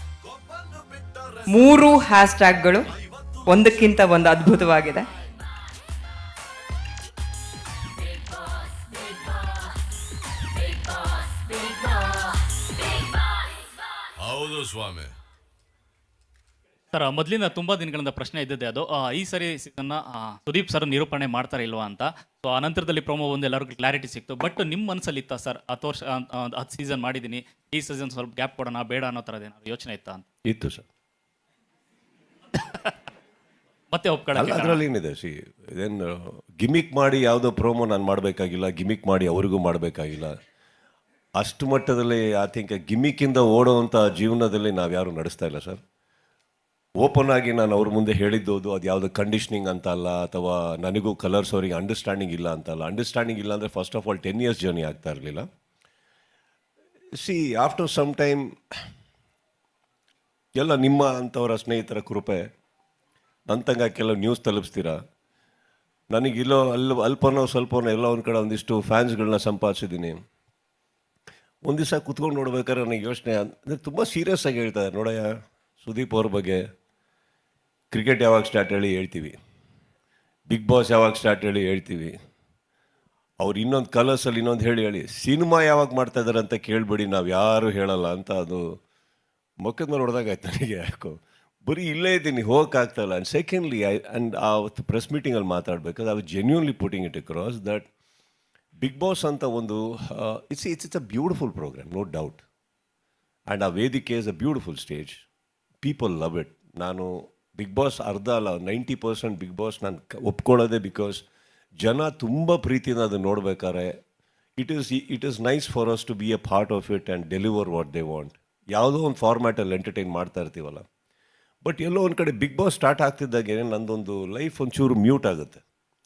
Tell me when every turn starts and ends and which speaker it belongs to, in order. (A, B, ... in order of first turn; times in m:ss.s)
0:00.2-0:01.4 A
0:01.5-0:02.8 B
0:03.5-0:05.1 B
0:14.2-0:15.1 A
0:16.9-0:30.2 C
0:30.4-0:30.8 D
0:32.5-0:32.9 C
0:33.9-0:34.8 C
0:34.3-0:40.3 D
0:41.4-0:45.8 D
0:47.0-0:55.4 D
0:57.2-0:58.5 D
1:00.6-1:02.4 D
1:03.5-1:05.0 D
1:06.1-1:10.2 D
1:11.6-1:15.3 D
1:15.8-1:16.6 D
1:17.9-1:19.4 D
1:20.5-1:22.1 D
1:23.4-1:28.6 D
1:29.6-1:37.9 D
1:38.8-1:42.4 D
1:43.5-1:45.2 D
1:45.8-1:51.2 D
1:51.8-1:53.9 D
1:54.6-2:00.8 D
2:01.6-2:05.6 D